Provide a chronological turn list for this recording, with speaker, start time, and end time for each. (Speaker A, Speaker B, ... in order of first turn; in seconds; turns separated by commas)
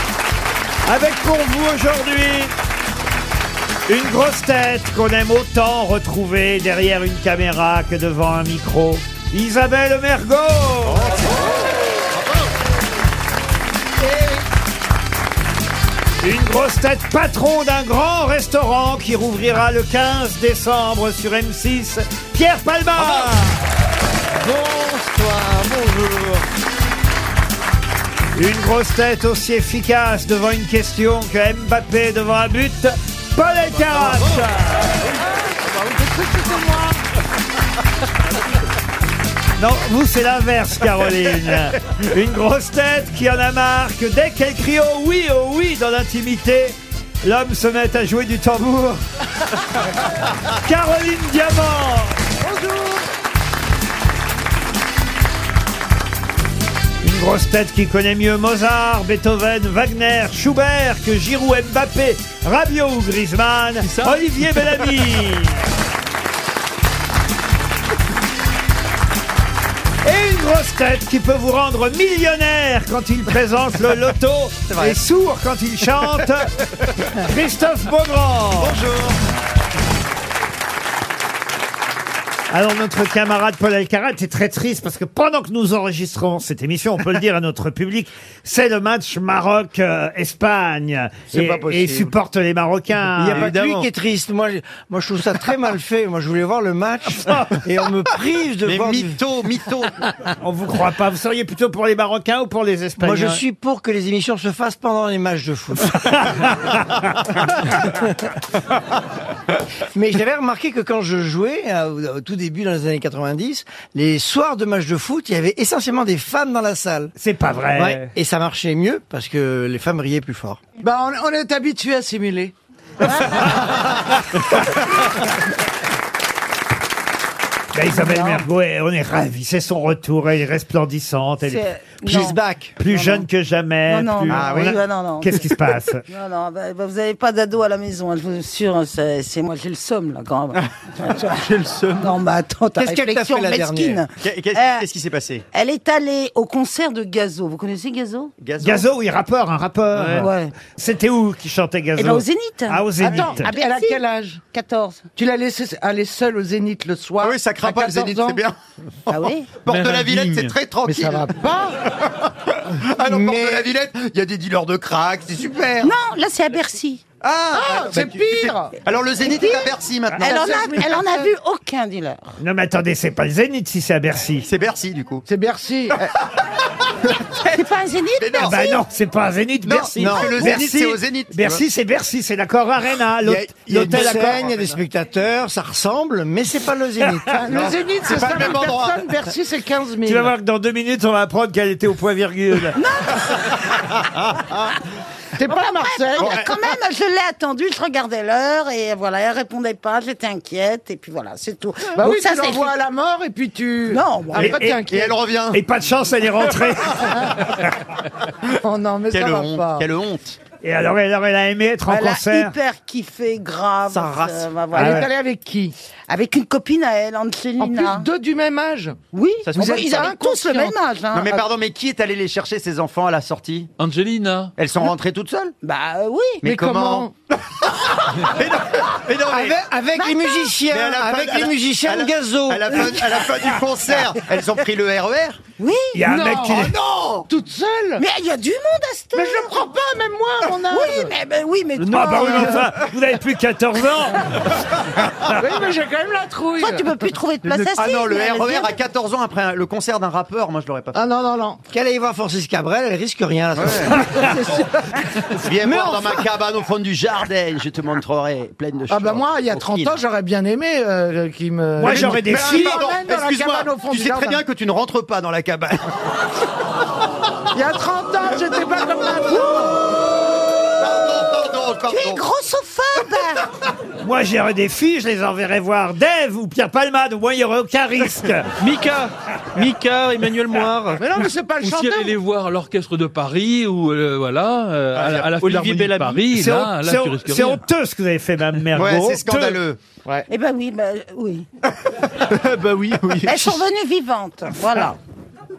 Speaker A: 0.8-2.5, Speaker A: 3.9-11.2, Speaker B: 10.9-12.2, Speaker B: 14.0-14.3, Speaker A: 16.2-23.6, Speaker B: 22.9-23.3, Speaker B: 24.4-26.4, Speaker A: 28.4-35.0, Speaker B: 33.9-34.4, Speaker C: 35.2-37.0, Speaker A: 39.6-49.0, Speaker A: 50.5-52.2, Speaker C: 52.4-53.0, Speaker A: 57.0-65.7, Speaker D: 63.8-64.8, Speaker A: 70.0-76.5, Speaker B: 74.7-75.0, Speaker A: 77.1-78.8, Speaker B: 78.5-79.2, Speaker A: 82.5-93.5, Speaker C: 91.3-92.1, Speaker E: 93.2-99.2, Speaker B: 93.3-93.9, Speaker A: 97.1-97.6, Speaker B: 98.6-100.1, Speaker A: 100.4-103.4, Speaker E: 103.0-105.9, Speaker A: 105.9-107.2, Speaker E: 109.9-117.1, Speaker A: 117.2-118.1, Speaker E: 117.8-120.6, Speaker C: 120.8-122.5, Speaker F: 123.0-123.6, Speaker A: 127.7-131.7, Speaker F: 127.9-128.5, Speaker F: 131.4-133.3, Speaker E: 132.0-132.7, Speaker A: 132.8-136.0, Speaker F: 133.9-135.5, Speaker B: 134.3-134.8, Speaker F: 136.1-144.9, Speaker B: 141.4-142.1, Speaker E: 142.8-144.0, Speaker B: 144.2-145.4, Speaker F: 145.5-148.3, Speaker B: 148.4-148.9, Speaker A: 148.6-153.5, Speaker D: 149.9-150.3, Speaker F: 150.2-150.6, Speaker F: 152.0-155.1, Speaker C: 153.0-154.4, Speaker C: 155.2-158.4, Speaker B: 157.2-158.6, Speaker F: 159.1-159.5, Speaker B: 159.1-161.3, Speaker D: 159.7-160.6, Speaker C: 160.8-161.8, Speaker B: 161.9-165.9, Speaker C: 163.1-163.7, Speaker F: 165.8-167.0, Speaker B: 167.2-170.8, Speaker C: 167.5-169.6, Speaker F: 169.2-172.4, Speaker C: 170.1-171.3, Speaker A: 172.4-174.5, Speaker B: 174.4-175.2, Speaker C: 175.3-176.0, Speaker B: 176.0-177.1, Speaker F: 177.4-178.5, Speaker B: 178.2-178.8, Speaker A: 178.4-184.3, Speaker B: 179.6-181.7, Speaker E: 180.0-180.7, Speaker B: 183.2-184.8, Speaker E: 183.5-187.4, Speaker C: 187.2-190.3, Speaker B: 187.5-189.1, Speaker A: 190.1-192.8, Speaker F: 192.7-193.6, Speaker C: 195.4-196.5, Speaker F: 195.5-202.8, Speaker B: 196.2-196.5, Speaker C: 201.9-205.2, Speaker F: 203.9-204.6, Speaker B: 204.4-205.6, Speaker A: 204.4-204.8, Speaker A: 205.5-207.6, Speaker C: 207.0-207.4, Speaker C: 208.4-209.9, Speaker B: 209.1-210.4, Speaker A: 210.6-212.6, Speaker F: 211.9-215.1, Speaker B: 213.9-214.9, Speaker C: 214.8-215.8, Speaker F: 216.1-218.1, Speaker C: 217.6-219.0, Speaker F: 219.1-221.5, Speaker B: 219.4-219.8, Speaker C: 219.6-220.8, Speaker B: 221.1-223.7, Speaker D: 223.8-224.5, Speaker B: 224.6-225.5, Speaker F: 225.6-226.4, Speaker B: 226.4-227.1, Speaker C: 226.4-227.1, Speaker B: 228.2-229.6, Speaker C: 229.3-229.6, Speaker E: 229.3-233.0, Speaker F: 229.9-230.5, Speaker B: 230.7-235.4, Speaker F: 235.6-236.0, Speaker A: 235.9-236.8, Speaker C: 236.0-236.7, Speaker B: 236.5-237.3, Speaker C: 237.2-238.0, Speaker F: 238.0-239.7, Speaker C: 239.1-241.2, Speaker F: 240.7-242.6, Speaker C: 241.9-242.7, Speaker A: 241.9-244.6, Speaker C: 245.3-246.9, Speaker F: 246.6-248.8, Speaker B: 247.4-251.0, Speaker C: 250.9-251.6, Speaker E: 251.7-254.3, Speaker B: 253.6-254.0, Speaker C: 254.2-256.0, Speaker B: 255.3-260.0, Speaker E: 255.7-256.1, Speaker C: 258.9-264.4, Speaker A: 261.8-262.8, Speaker B: 261.8-265.9, Speaker C: 267.5-269.8, Speaker B: 270.8-272.2, Speaker F: 271.9-273.5, Speaker A: 274.0-278.5, Speaker D: 278.6-287.6, Speaker C: 281.0-282.2, Speaker B: 284.9-286.2, Speaker A: 286.2-289.6, Speaker B: 288.7-289.8, Speaker F: 290.3-291.5, Speaker D: 292.3-293.4, Speaker F: 293.2-295.0